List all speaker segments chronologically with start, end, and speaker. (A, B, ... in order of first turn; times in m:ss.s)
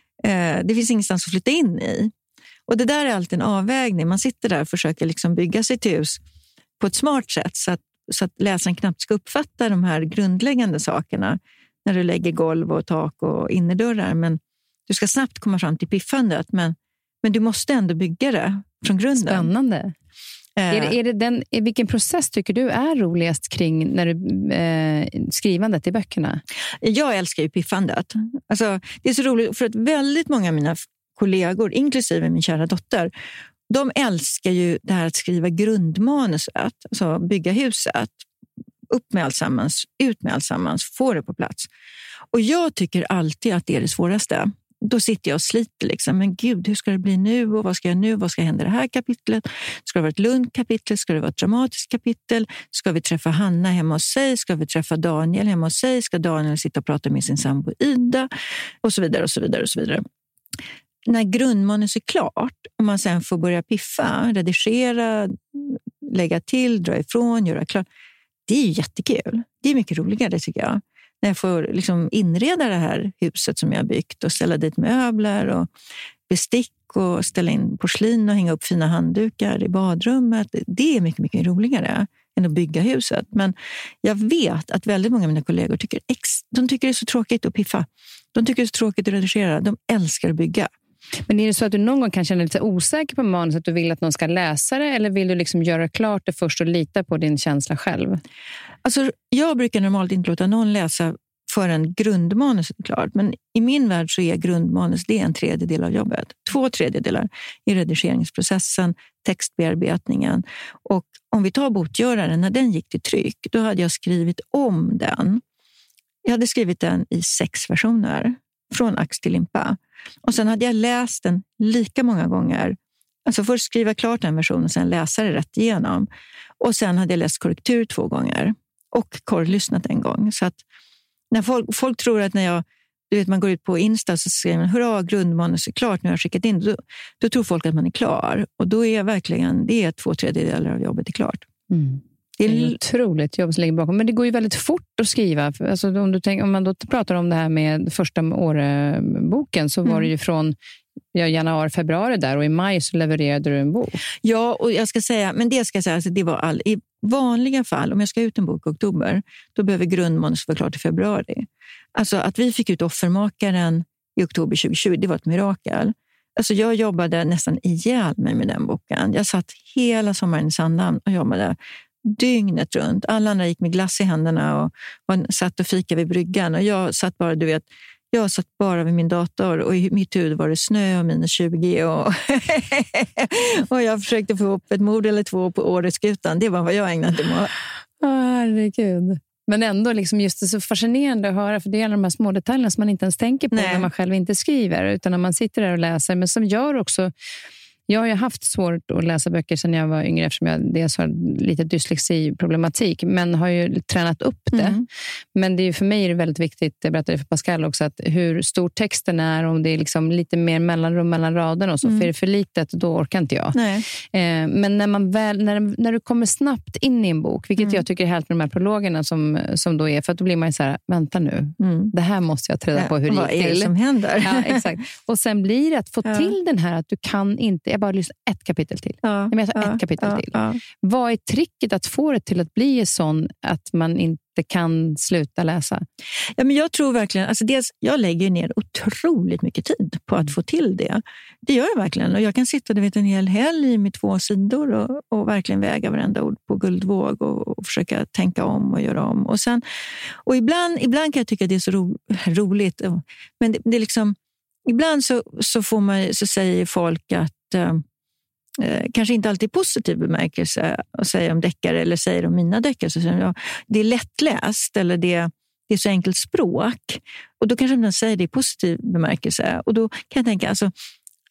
0:00.2-0:02.1 A
0:02.7-0:06.2 A
0:06.8-0:19.5 A
0:19.2-0:19.9 B
0:20.6-0:21.0 A
0:20.7-0:26.4 B
0:26.8-0:33.1 A
0:33.7-0:38.2 A
0:38.9-0:41.7 A
0:42.3-0:58.3 A
0:58.8-1:00.0 A
1:01.0-1:07.8 A
1:08.5-1:15.7 A
1:16.3-1:30.7 A
1:31.3-1:38.2 B
1:38.8-1:55.4 A
1:56.2-2:06.1 A
2:06.6-2:10.6 A
2:11.3-2:21.4 A
2:21.7-2:30.5 B
2:22.4-2:22.8 A
2:31.1-2:34.0 B
2:34.2-3:07.5 A
3:08.0-3:17.1 B
3:13.5-3:13.9 A
3:17.9-3:24.8 B
3:24.5-3:24.8 A
3:25.3-3:33.6 B
3:31.8-3:32.1 A
3:33.5-3:33.8 A
3:34.1-3:55.8 B
3:41.6-3:41.9 A
3:42.8-3:44.6 A
3:46.0-3:46.3 A
3:49.0-3:50.6 A
3:56.4-4:09.6 A
4:10.2-4:17.8 A
4:18.6-4:30.7 A